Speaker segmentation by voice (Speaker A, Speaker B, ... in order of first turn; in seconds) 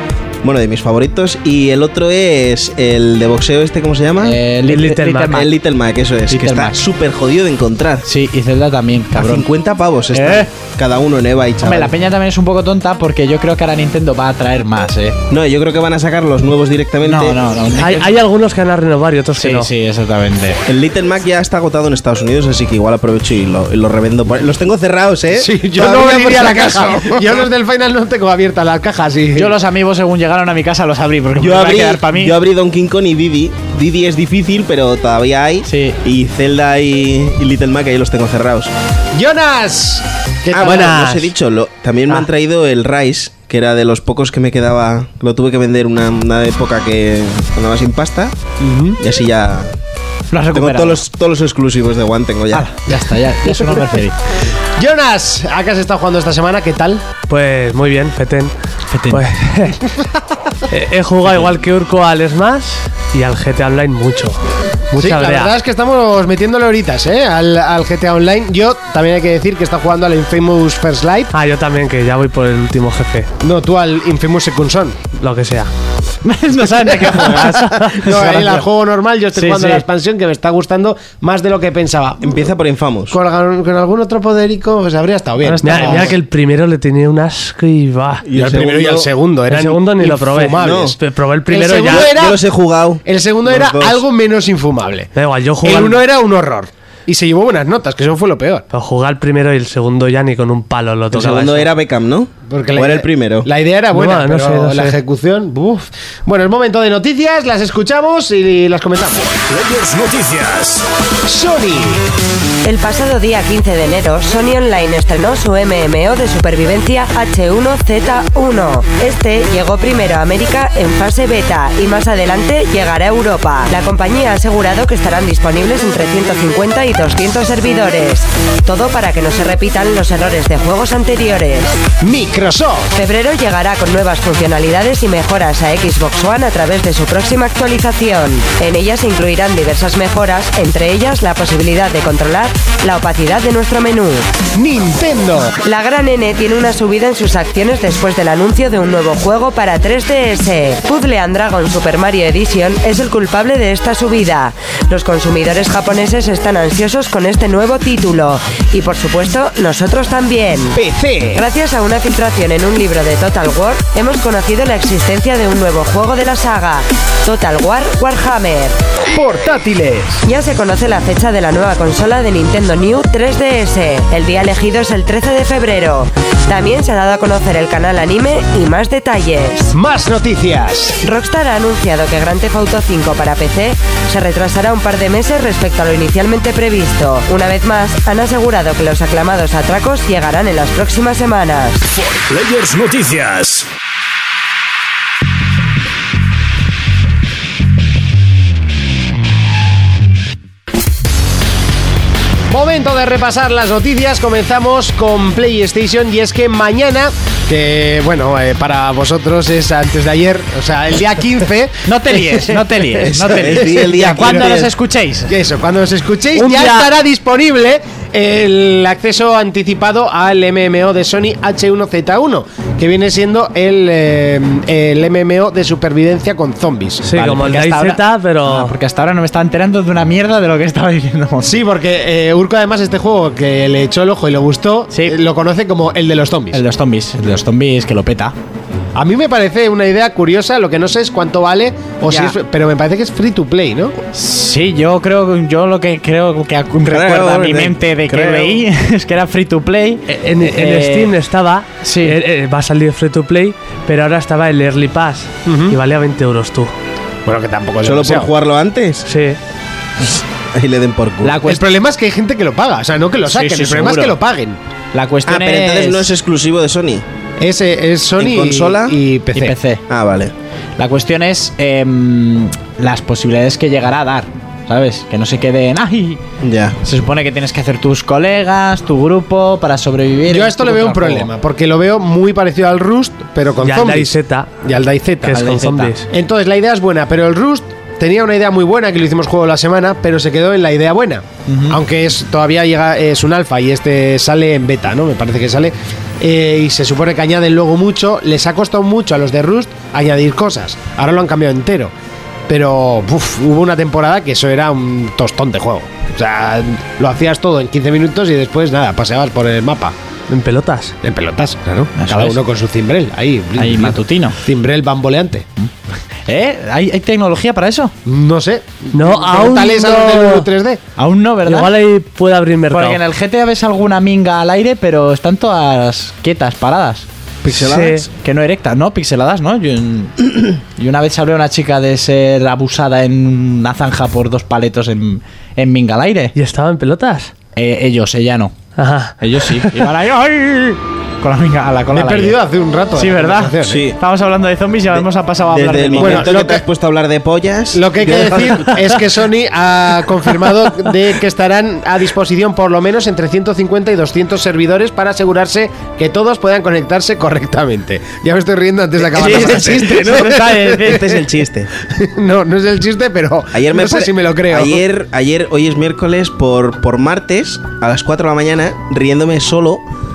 Speaker A: 0.4-4.4, 5.3-8.1, 9.1-11.9, 15.3-17.4, 20.7-27.2, 31.4-38.7, 40.5-48.3, 49.0-49.7, 50.5-52.6, 82.2-83.2, 88.2-89.1, 90.6-91.0, 91.8-94.0, 101.1-103.5, 213.0-214.7, 246.8-248.6, 257.8-259.1, 260.0-261.4, 265.2-267.0, 268.2-269.0, 269.9-270.3, 276.4-276.8, 327.4-328.1, 343.6-344.0, 344.9-349.0, 359.1-361.7, 363.5-369.8
Speaker B: 4.2-5.5, 6.3-6.8, 8.0-9.5, 10.1-10.5, 11.6-15.2, 17.0-18.1, 19.4-20.6, 29.3-32.4, 35.7-36.0, 50.3-51.0, 52.5-54.2, 58.9-59.3, 76.2-78.7, 79.3-79.8, 211.9-215.4, 216.3-216.8, 227.1-231.6, 234.9-235.2, 236.5-238.3, 242.1-242.3, 244.1-251.1, 251.8-252.2, 261.2-261.6, 263.2-264.1, 264.9-266.1, 269.3-269.8, 270.8-276.2, 276.8-281.3, 285.3-285.9, 291.5-291.8, 311.9-312.4, 313.6-314.4, 316.3-317.9, 321.0-321.7, 322.7-327.1, 328.2-330.1, 330.8-336.3, 337.5-338.5, 339.2-342.4, 342.9-346.4, 359.1-361.2
Speaker C: 4.7-5.4, 17.8-19.7, 40.6-41.2, 57.3-58.5, 59.1-59.8, 60.7-64.4, 65.0-65.5, 71.3-73.3, 75.2-75.7, 85.4-88.2, 89.5-92.1, 95.1-96.0, 98.7-101.7, 103.9-105.0, 227.0-228.7, 250.1-256.7, 259.1-259.4, 283.6-284.5, 285.2-286.1, 310.3-310.9, 318.9-320.5, 321.5-323.0, 327.5-328.0, 336.3-337.3, 338.8-339.6
Speaker D: 25.3-29.6, 39.1-41.2, 48.6-49.0, 53.5-53.9, 54.8-57.0, 64.9-71.3, 73.4-75.0, 77.0-82.4, 83.1-86.2, 88.3-92.4, 93.0-95.1, 95.6-98.6, 102.5-109.3, 111.2-112.0, 132.0-132.9, 144.5-145.6, 160.7-161.4, 169.1-170.2, 179.7-181.0, 202.5-214.7, 215.3-227.0, 231.4-236.6, 238.9-243.9, 255.4-255.8, 257.2-258.3, 261.4-264.6, 267.4-269.6, 280.3-285.4, 286.1-301.9, 302.5-309.9, 311.0-315.5, 318.1-320.8, 341.9-343.8, 345.9-346.6, 347.7-361.2, 361.9-364.8
Speaker E: 109.5-110.8, 191.9-193.7
Speaker F: 112.6-131.8, 132.9-144.3, 145.6-160.8, 161.3-168.8, 170.2-179.7, 181.0-191.8